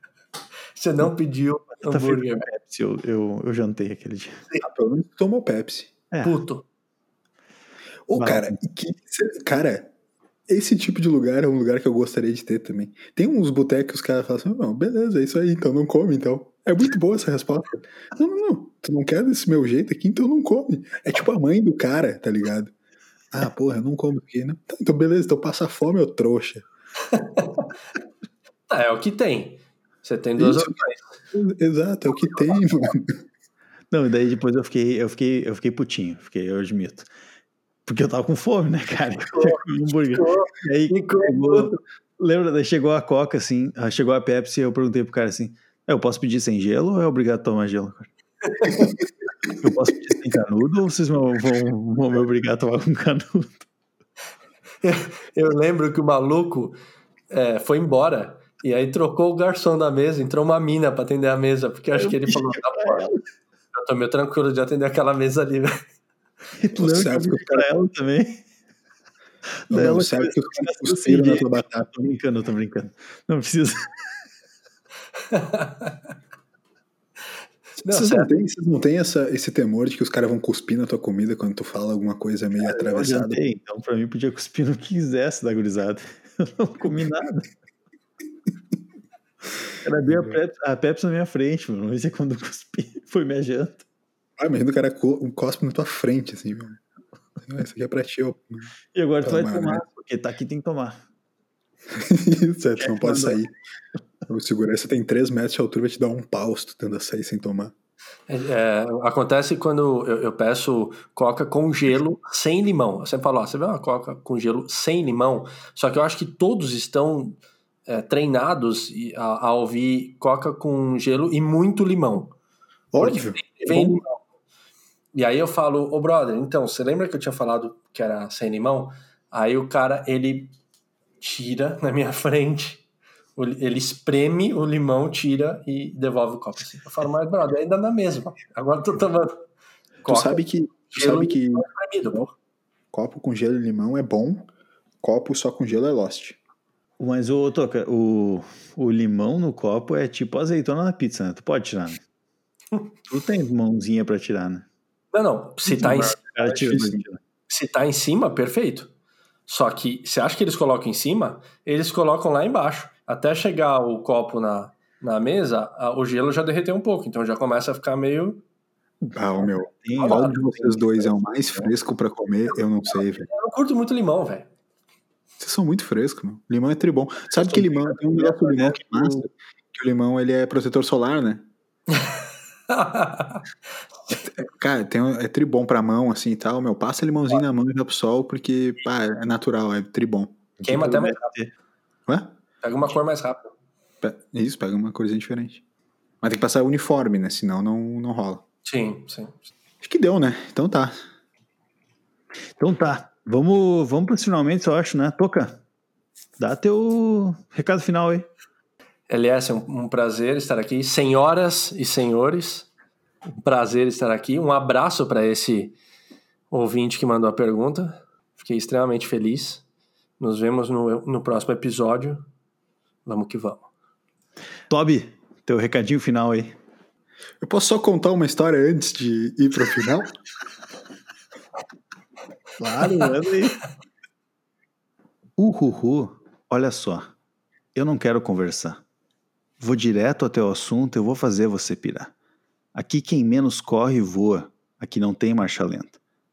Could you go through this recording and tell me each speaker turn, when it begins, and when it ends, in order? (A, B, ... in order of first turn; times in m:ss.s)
0:00.7-0:02.5 A
0:01.8-0:04.4 B
0:04.6-0:05.9 C
0:06.1-0:06.4 B
0:06.2-0:06.6 A
0:08.1-0:09.9 C
0:08.2-0:08.6 B
0:10.5-0:22.7 C
0:23.3-0:26.6 C
0:27.1-0:27.7 A
0:28.7-0:31.2 A
0:30.4-0:30.7 C
0:31.3-0:33.1 C
0:32.2-0:32.6 A
0:33.9-0:37.1 B
0:37.8-0:48.1 B
0:39.3-0:41.7 A
0:48.4-0:48.9 A
0:49.5-0:53.7 B
0:54.8-0:56.8 A
0:57.3-1:03.1 A
1:01.9-1:03.2 B
1:03.7-1:05.7 A
1:06.6-1:08.4 B
1:06.8-1:07.7 C
1:09.7-1:13.9 B
1:09.7-1:11.9 C
1:15.3-1:16.0 A
1:17.8-1:18.3 A
1:17.8-1:23.4 C
1:22.6-1:27.5 B
1:29.8-1:33.8 B
1:30.0-1:30.4 C
1:34.4-1:36.8 C
1:37.4-1:38.7 C
1:38.9-1:41.0 B
1:39.2-1:39.8 C
1:41.9-1:43.5 C
1:42.8-1:43.4 B
1:44.3-1:47.7 C
1:48.3-2:02.3 A
2:02.9-2:04.0 C
2:03.0-2:04.2 A
2:05.1-2:10.5 A
2:11.2-2:12.8 A
2:13.4-2:19.4 A
2:20.0-2:22.3 A
2:20.1-2:21.6 C
2:22.9-2:24.5 C
2:25.0-2:26.4 C
2:27.0-2:32.0 B
2:33.1-2:34.6 B
2:35.1-2:36.3 A
2:35.6-2:37.2 B
2:36.5-2:37.0 C
2:37.5-2:38.9 A
2:39.5-2:48.4 A
2:49.0-2:51.7 B
2:49.2-2:53.3 C
2:50.0-2:50.3 A
2:53.2-2:54.5 A
2:55.4-3:01.4 C
2:57.4-2:59.2 B
3:01.9-3:03.4 A
3:04.2-3:10.4 C
3:10.6-3:11.5 B
3:10.6-3:11.3 A
3:12.1-3:12.4 C
3:12.6-3:13.5 A
3:14.0-3:15.6 C
3:16.2-3:18.4 C
3:18.6-3:19.4 A
3:19.8-3:20.9 C
3:22.6-3:25.6 B
3:26.4-3:28.3 B
3:29.1-3:32.7 A
3:33.4-3:35.8 A
3:36.5-3:39.6 A
3:40.2-3:42.2 A
3:43.0-3:43.7 A
3:44.7-3:46.6 B
3:47.4-3:50.1 C
3:52.6-3:53.6 B
3:52.8-3:53.1 A
3:55.4-3:57.1 B
3:57.7-3:58.8 B
3:59.6-4:02.1 B
4:02.7-4:06.0 B